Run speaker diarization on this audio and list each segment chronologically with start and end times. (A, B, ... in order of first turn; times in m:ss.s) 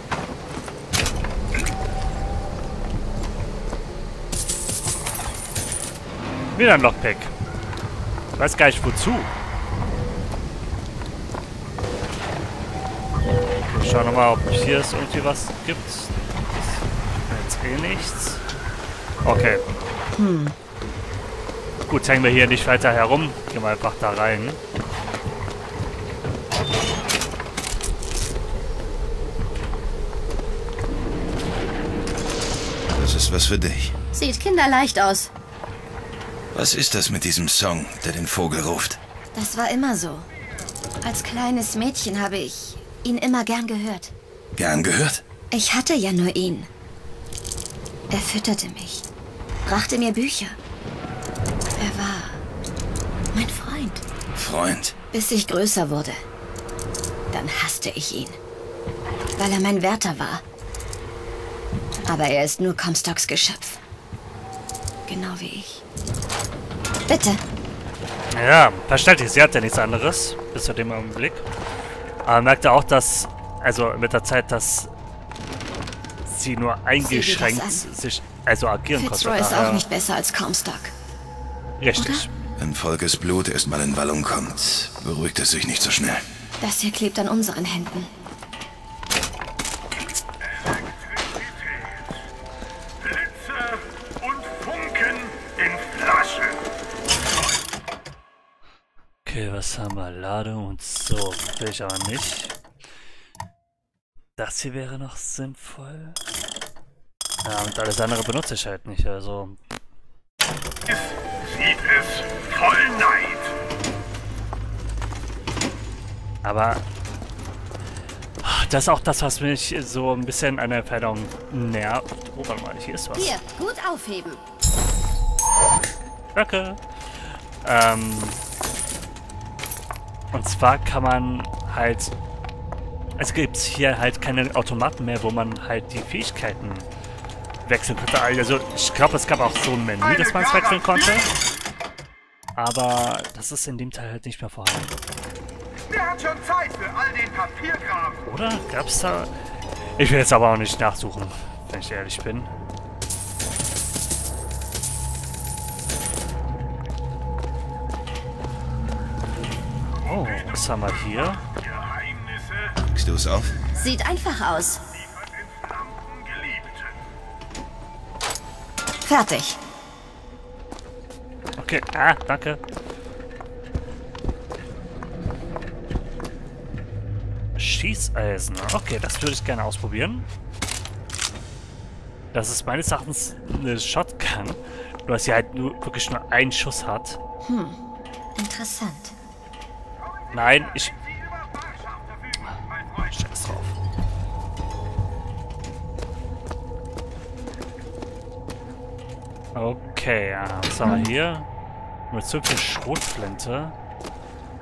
0:06.5-0:07.3 A
0:08.4-0:09.3 A
0:13.7-0:18.4 A
0:19.2-0:19.6 A
0:20.1-0:20.6 B
0:21.9-0:24.6 A
0:32.9-0:33.9 C
0:34.1-0:35.3 B
0:36.5-0:39.0 C
0:39.3-0:40.3 B
0:41.0-0:44.1 B
0:44.6-0:45.2 C
0:45.5-0:46.7 B
0:48.1-0:49.0 B
0:49.6-0:50.6 B
0:51.8-0:52.4 B
0:53.3-0:54.0 B
0:54.3-0:54.9 C
0:55.1-0:56.2 B
0:57.3-0:58.4 B
0:59.4-1:00.4 B
1:02.0-1:03.8 B
1:05.1-1:05.8 B
1:07.1-1:07.4 B
1:08.3-1:11.4 A
1:12.2-1:14.9 A
1:16.2-1:19.8 A
1:17.0-1:17.8 B
1:18.9-1:20.9 B
1:21.8-1:22.3 A
1:22.0-1:22.2 B
1:22.6-1:26.2 C
1:26.6-1:28.1 B
1:30.4-1:32.1 D
1:33.0-1:36.6 D
1:37.2-1:37.7 D
1:39.2-1:42.5 A
1:44.4-1:46.2 A
1:47.4-1:49.6 A
1:50.9-1:53.5 D
1:56.4-1:56.8 A
1:58.4-2:03.3 A
2:03.1-2:04.4 B
2:06.3-2:08.4 A
2:10.3-2:12.1 A
2:13.2-2:16.9 A
2:17.6-2:21.3 A
2:20.0-2:21.3 D
2:22.6-2:24.9 A
2:25.9-2:28.2 D
2:28.2-2:29.3 A
2:30.0-2:32.5 A
2:40.0-2:42.7 D
2:40.0-2:41.4 A
2:42.9-2:43.5 C
2:43.8-2:44.8 B
2:44.9-2:47.0 D
2:49.0-2:49.6 B
2:51.6-2:52.6 A
2:57.6-3:00.2 A
3:02.3-3:07.2 A
3:07.4-3:09.1 B
3:10.3-3:10.9 A
3:10.3-3:11.0 D
3:11.6-3:13.1 D
3:12.4-3:13.8 A
3:19.5-3:21.5 A
3:22.1-3:23.7 A